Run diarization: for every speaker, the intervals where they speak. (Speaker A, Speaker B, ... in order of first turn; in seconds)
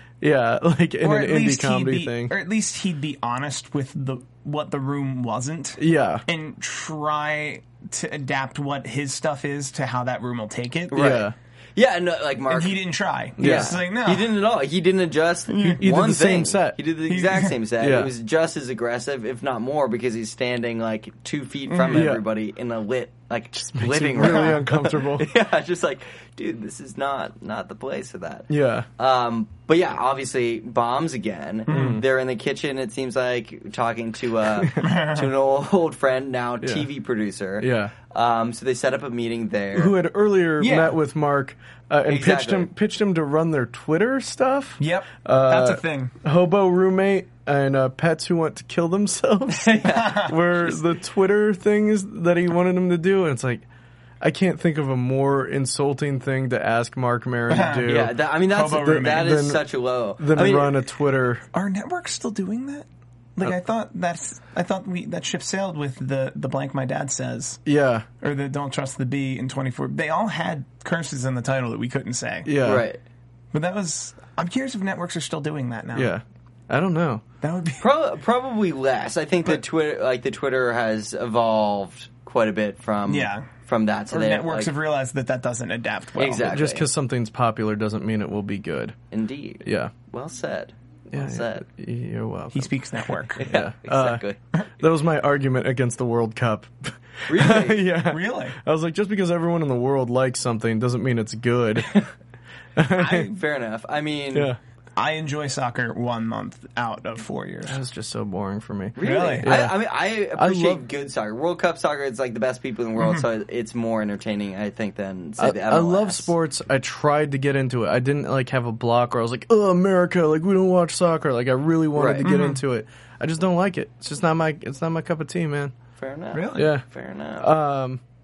Speaker A: 0.2-2.4, 5.8-6.2, 10.9-11.3, 13.4-13.8, 15.8-16.8, 17.8-18.1, 21.9-22.2, 23.6-25.3, 28.5-28.9, 31.7-32.0, 36.6-36.9, 37.6-37.9, 39.8-53.6, 54.2-58.2, 58.8-59.6, 60.2-61.4, 67.7-68.1, 72.5-72.9, 75.9-77.2, 86.4-89.0, 89.6-89.9, 91.1-94.2, 94.8-101.9, 102.8-103.3, 104.3-104.6, 107.7-109.8, 110.3-110.8, 115.4-125.7, 126.5-126.8, 127.4-128.0
Speaker B: 1.0-11.2, 12.5-14.4, 15.5-15.9, 17.1-17.6, 21.7-22.1, 24.2-24.6, 31.7-32.0, 34.8-35.3, 40.6-41.0, 44.8-46.1, 50.0-50.3, 57.5-59.3, 61.5-67.6, 68.2-72.5, 73.5-76.1, 77.4-77.8, 83.1-83.5, 84.1-86.5, 92.5-93.5, 98.0-98.6, 103.0-103.3, 105.0-107.8, 109.0-109.5, 122.2-122.6, 126.3-126.7
Speaker C: 10.9-12.8, 13.4-39.9, 42.1-42.7, 49.5-50.8, 57.9-60.8, 72.6-73.0, 77.8-84.7, 86.2-86.9, 89.1-91.7, 93.4-94.4, 97.3-97.9, 101.9-102.1, 103.0-104.5, 109.0-116.3, 122.0-122.3, 126.0-127.5